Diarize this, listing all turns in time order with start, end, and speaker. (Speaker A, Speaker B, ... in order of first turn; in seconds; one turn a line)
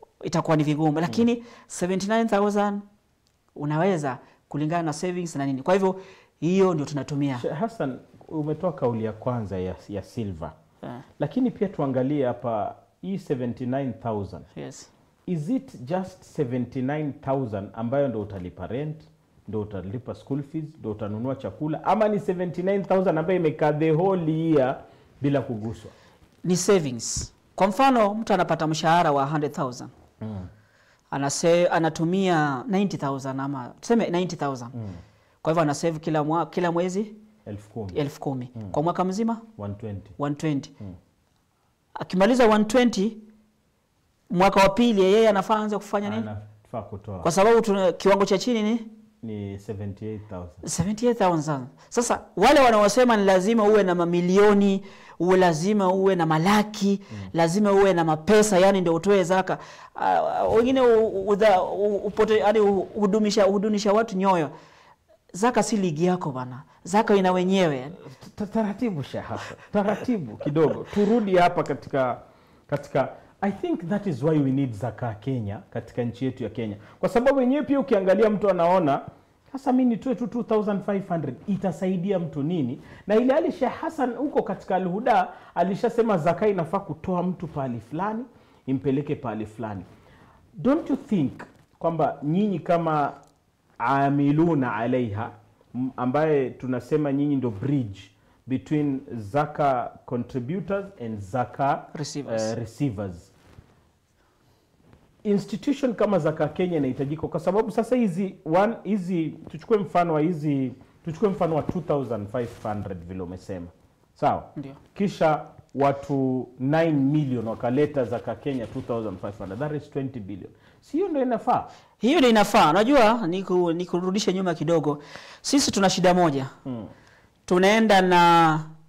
Speaker A: 0.2-2.8
Speaker A: 3.5-7.5
Speaker B: 7.4-10.6
Speaker B: 11.2-14.5
Speaker A: 14.6-14.9
Speaker B: 15.3-25.9
Speaker A: 26.4-29.9
Speaker B: 30.2-30.5
Speaker A: 31.1-34.7
Speaker B: 34.8-35.0
Speaker A: 35.4-37.2
Speaker B: 37.5-38.0
Speaker A: 37.9-39.5
Speaker B: 39.6-40.2
Speaker A: 40.2-40.7
Speaker A: 42.0-43.2
Speaker A: 44.3-46.3
Speaker B: 46.0-47.3
Speaker A: 47.2-48.9
Speaker B: 49.2-50.6
Speaker A: 50.6-64.5
Speaker A: 65.3-68.0
Speaker B: 68.0-89.9
Speaker B: 90.6-93.2
Speaker B: 93.8-103.3
Speaker A: 101.9-102.5
Speaker B: 105.2-121.7
Speaker A: 122.0-126.5
Speaker B: 126.6-126.9
Speaker A: 127.5-128.7